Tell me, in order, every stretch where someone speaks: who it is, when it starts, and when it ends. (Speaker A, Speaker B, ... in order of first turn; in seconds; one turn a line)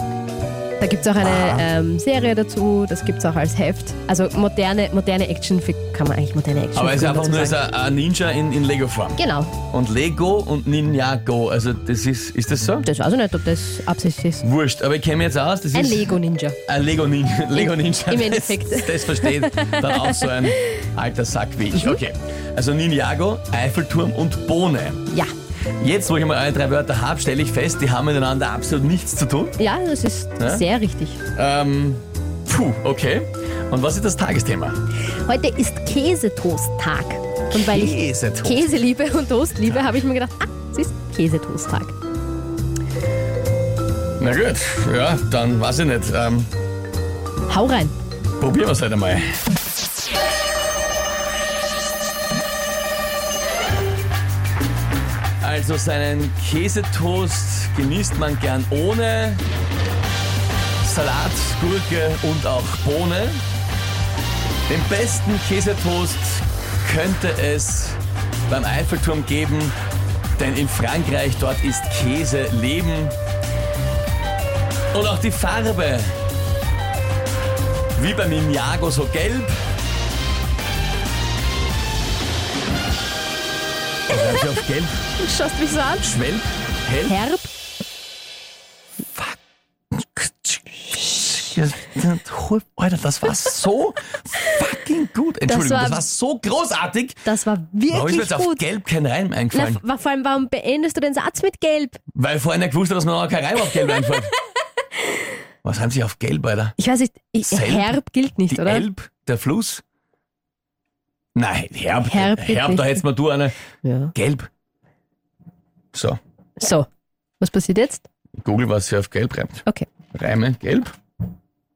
Speaker A: 0.8-7.6
Speaker B: 1.2-1.7
Speaker B: 6.8-12.9
Speaker A: 9.2-9.5
Speaker A: 12.8-14.4
Speaker B: 14.4-25.0
Speaker A: 15.7-16.6
Speaker A: 17.5-20.6
Speaker B: 25.8-29.6
Speaker A: 29.6-31.2
Speaker B: 30.4-30.7
Speaker B: 31.3-34.8
Speaker A: 35.2-42.0
Speaker B: 37.5-38.7
Speaker B: 44.2-46.5
Speaker A: 47.5-47.9
Speaker B: 48.4-49.4
Speaker B: 55.4-59.4
Speaker B: 60.8-63.4
Speaker B: 64.7-69.8
Speaker B: 70.4-73.2
Speaker B: 74.9-76.2
Speaker B: 78.0-79.6
Speaker B: 84.1-85.0
Speaker A: 85.2-86.1
Speaker B: 86.0-87.2
Speaker A: 87.1-87.5
Speaker B: 89.1-89.4
Speaker B: 89.9-97.2
Speaker A: 95.5-96.0
Speaker A: 97.2-98.6
Speaker B: 97.9-99.8
Speaker A: 99.5-102.0
Speaker B: 102.1-104.3
Speaker B: 105.6-106.8
Speaker A: 106.8-108.9
Speaker B: 107.4-109.8
Speaker B: 111.3-113.6
Speaker A: 112.1-113.0
Speaker A: 113.8-114.1
Speaker B: 114.1-114.5
Speaker B: 115.9-116.2
Speaker A: 116.6-116.9
Speaker A: 117.4-118.0
Speaker B: 118.4-121.0